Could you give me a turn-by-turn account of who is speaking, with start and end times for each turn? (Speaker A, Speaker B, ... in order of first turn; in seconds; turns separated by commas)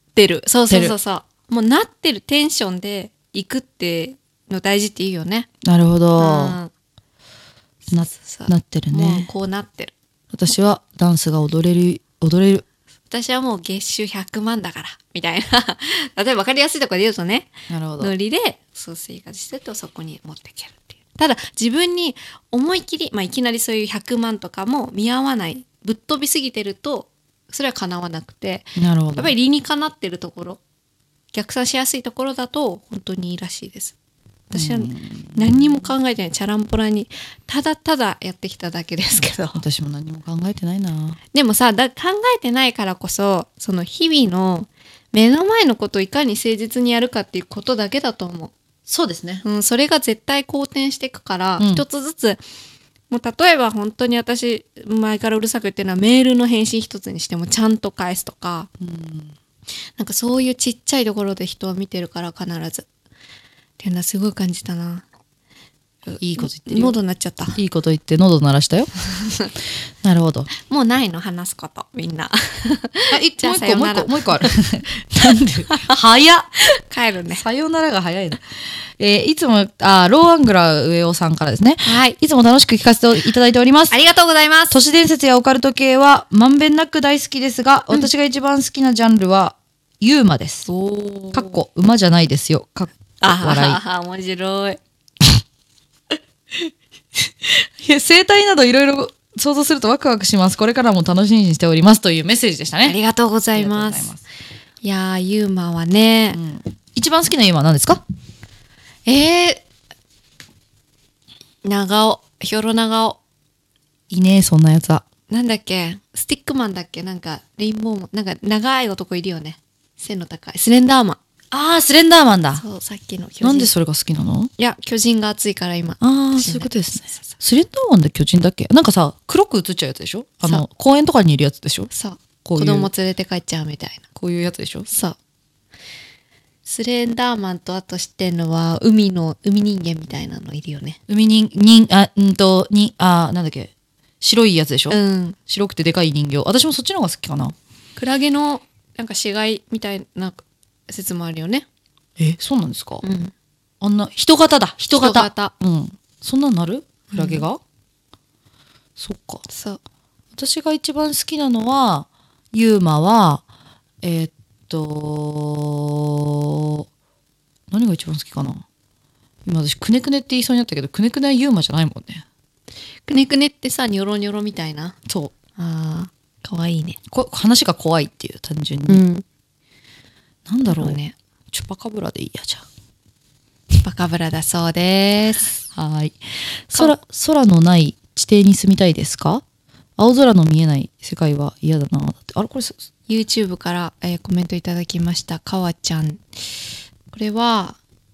Speaker A: 0.1-5.5, Speaker B: 0.7-0.9, Speaker B: 5.6-6.6, Speaker A: 6.2-6.7, Speaker A: 7.9-9.9, Speaker B: 7.9-9.3, Speaker B: 10.3-12.6, Speaker A: 13.1-30.6, Speaker B: 17.7-18.1, Speaker B: 28.8-29.3, Speaker A: 31.3-33.9, Speaker A: 34.5-39.6, Speaker B: 34.5-35.9, Speaker B: 39.5-41.2, Speaker A: 41.3-48.5, Speaker B: 48.9-49.4, Speaker A: 49.4-52.4, Speaker B: 51.6-51.8, Speaker A: 53.1-58.7, Speaker B: 58.8-59.3, Speaker A: 60.0-62.9, Speaker A: 63.8-65.0, Speaker A: 66.0-67.6, Speaker B: 66.2-67.0, Speaker B: 67.5-68.9, Speaker A: 69.2-69.5, Speaker B: 70.0-70.5, Speaker A: 70.6-74.5, Speaker B: 73.1-76.5, Speaker A: 75.7-76.0, Speaker A: 76.6-77.4, Speaker B: 77.3-84.0, Speaker A: 81.8-82.2, Speaker A: 83.9-84.8, Speaker B: 84.7-90.7, Speaker A: 90.7-91.5, Speaker B: 91.3-93.8, Speaker A: 93.2-94.8, Speaker B: 97.1-103.0, Speaker A: 102.8-104.1, Speaker B: 103.5-104.2, Speaker A: 104.8-106.4, Speaker B: 106.3-108.0, Speaker A: 109.0-109.6, Speaker A: 111.6-113.2, Speaker B: 114.1-115.0, Speaker A: 115.3-121.2, Speaker B: 121.5-122.6, Speaker A: 122.6-123.7, Speaker B: 123.4-124.5, Speaker A: 124.6-127.3, Speaker B: 126.0-131.9, Speaker A: 131.9-134.0, Speaker B: 132.4-132.9, Speaker B: 134.2-134.9, Speaker A: 134.9-135.2, Speaker A: 136.7-141.0, Speaker B: 141.1-147.6, Speaker A: 144.9-145.4, Speaker A: 147.9-151.7, Speaker B: 152.2-153.0, Speaker A: 153.0-153.3, Speaker B: 153.8-157.6, Speaker A: 154.8-155.5, Speaker A: 157.1-157.4, Speaker B: 159.0-159.4, Speaker A: 159.5-159.8, Speaker B: 160.3-163.4, Speaker B: 164.0-166.8, Speaker B: 167.7-168.6, Speaker B: 169.4-172.2, Speaker A: 173.1-174.9, Speaker B: 175.1-175.3, Speaker A: 175.6-177.0, Speaker B: 177.1-179.0, Speaker A: 178.9-179.2, Speaker B: 180.5-181.0, Speaker A: 180.7-181.1, Speaker B: 181.5-182.7, Speaker A: 183.7-185.6, Speaker B: 185.7-189.4, Speaker A: 186.7-187.0, Speaker B: 190.0-192.8, Speaker A: 193.1-196.2, Speaker A: 197.1-197.8